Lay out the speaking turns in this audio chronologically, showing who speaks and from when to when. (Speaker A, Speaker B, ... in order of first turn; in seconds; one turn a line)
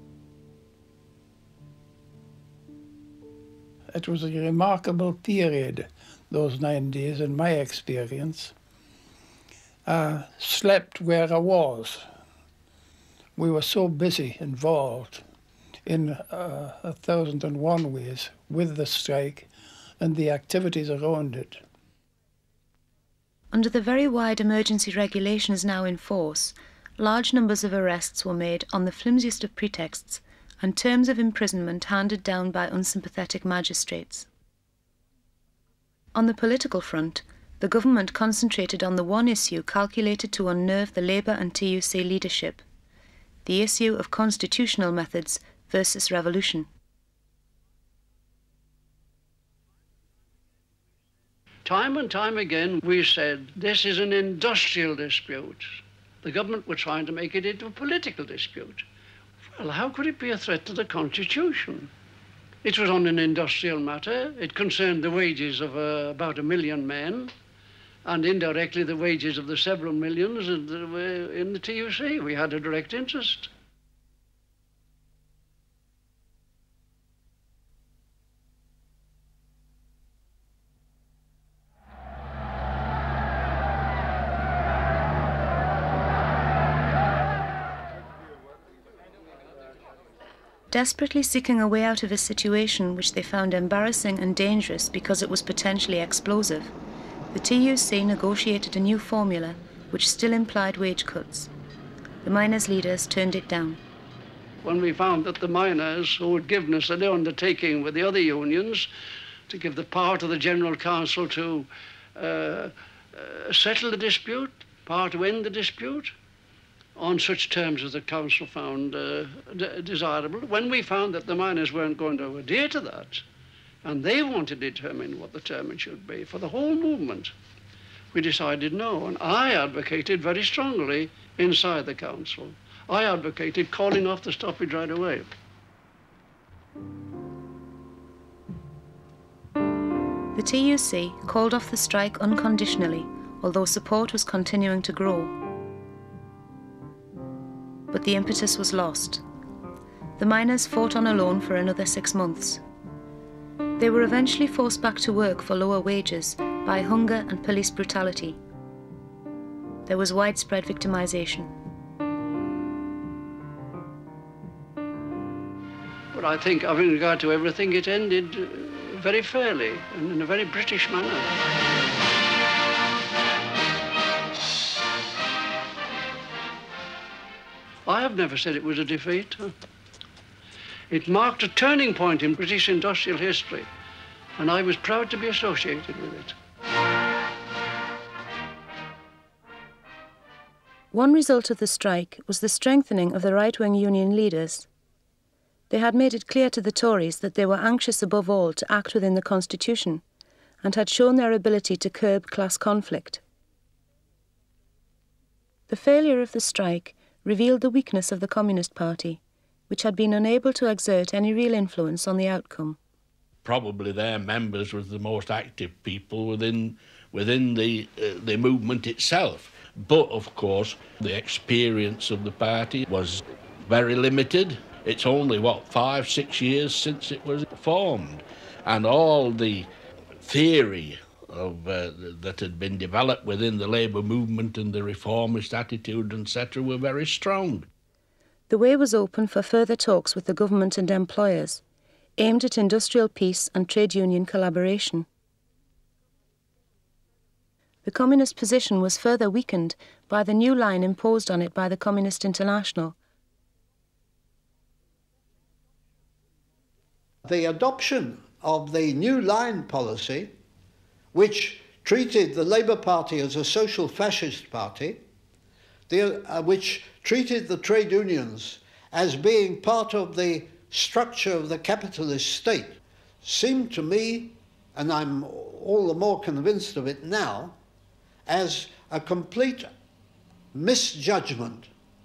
Speaker A: 3.9-8.5
Speaker A: 9.9-12.1
Speaker A: 13.4-15.2
Speaker A: 15.9-19.5
Speaker A: 20.0-21.6
Speaker B: 23.5-34.3
Speaker B: 36.1-42.6
Speaker B: 43.5-46.7
Speaker C: 51.6-58.9
Speaker C: 59.5-61.9
Speaker C: 62.6-67.3
Speaker C: 68.1-73.5
Speaker B: 90.7-96.7
Speaker B: 97.3-101.5
Speaker B: 102.2-103.8
Speaker C: 104.6-108.9
Speaker C: 109.5-116.1
Speaker C: 117.0-123.2
Speaker C: 123.8-127.3
Speaker C: 128.1-135.3
Speaker B: 140.3-145.3
Speaker B: 147.9-149.2
Speaker B: 150.2-152.6
Speaker B: 153.8-158.4
Speaker B: 159.9-161.5
Speaker C: 166.1-171.3
Speaker C: 177.9-179.5
Speaker C: 180.9-183.7
Speaker C: 184.4-186.4
Speaker B: 190.9-194.7
Speaker B: 195.7-200.0
Speaker B: 200.6-203.2
Speaker B: 205.7-212.8
Speaker D: 213.4-229.7
Speaker D: 230.2-237.7
Speaker B: 238.5-241.6
Speaker B: 242.2-245.1
Speaker B: 247.8-252.9
Speaker E: 257.2-260.3
Speaker E: 261.1-265.0
Speaker E: 265.9-277.6
Speaker E: 278.3-279.7
Speaker E: 280.5-281.7